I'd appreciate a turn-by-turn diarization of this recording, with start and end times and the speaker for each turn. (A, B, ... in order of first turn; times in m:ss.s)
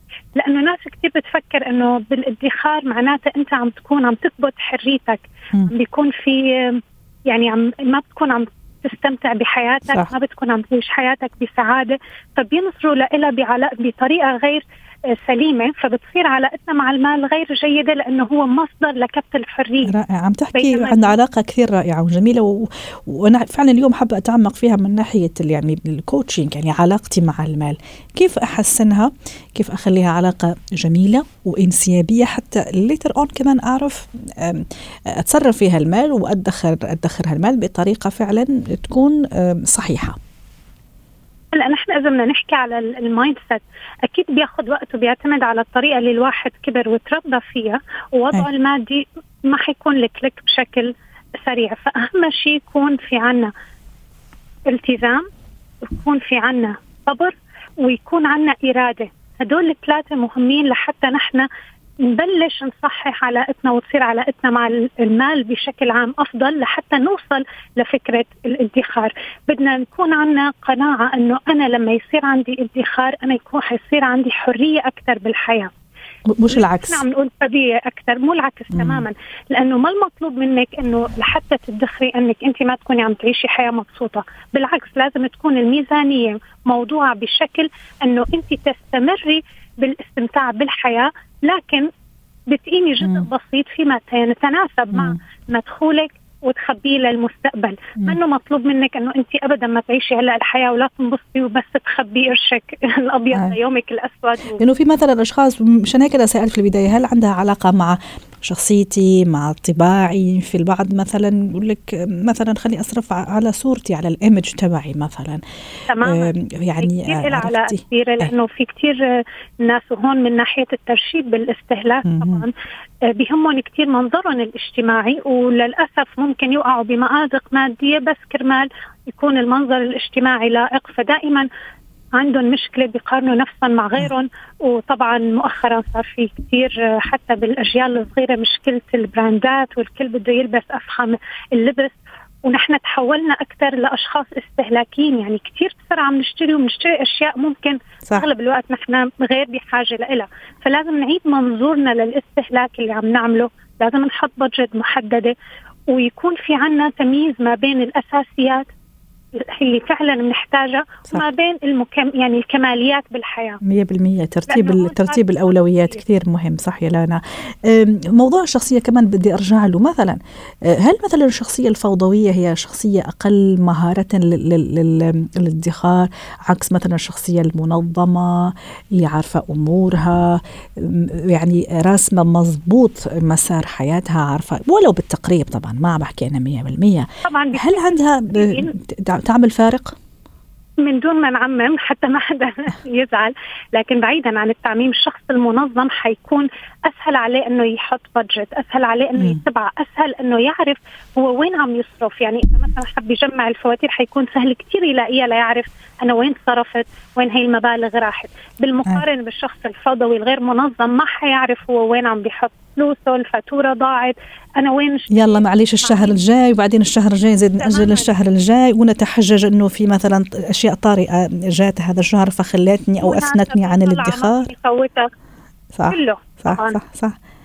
0:00.3-0:19.9 A
0:19.8-0:40.2 B
0:20.5-0:21.1 A
0:41.5-0:53.5 A
0:54.7-0:55.3 A
0:55.8-1:01.5 A
1:02.0-1:15.7 A
1:16.4-1:17.0 B
1:16.5-1:31.9 A
1:18.7-1:19.0 B
1:32.5-1:44.6 A
1:34.9-1:35.2 B
1:44.6-1:55.4 B
1:55.9-2:02.5 A
1:56.0-1:58.3 B
2:02.0-2:02.4 B
2:03.0-2:11.4 A
2:12.2-2:35.3 A
2:35.9-2:38.7 A
2:39.3-2:43.6 A
2:43.6-3:09.9 B
2:44.5-2:46.0 A
3:07.2-3:08.7 A
3:10.8-3:36.2 A
3:35.1-3:44.5 B
3:37.6-3:38.1 A
3:43.0-3:45.1 A
3:45.7-3:47.2 B
3:45.9-3:46.8 A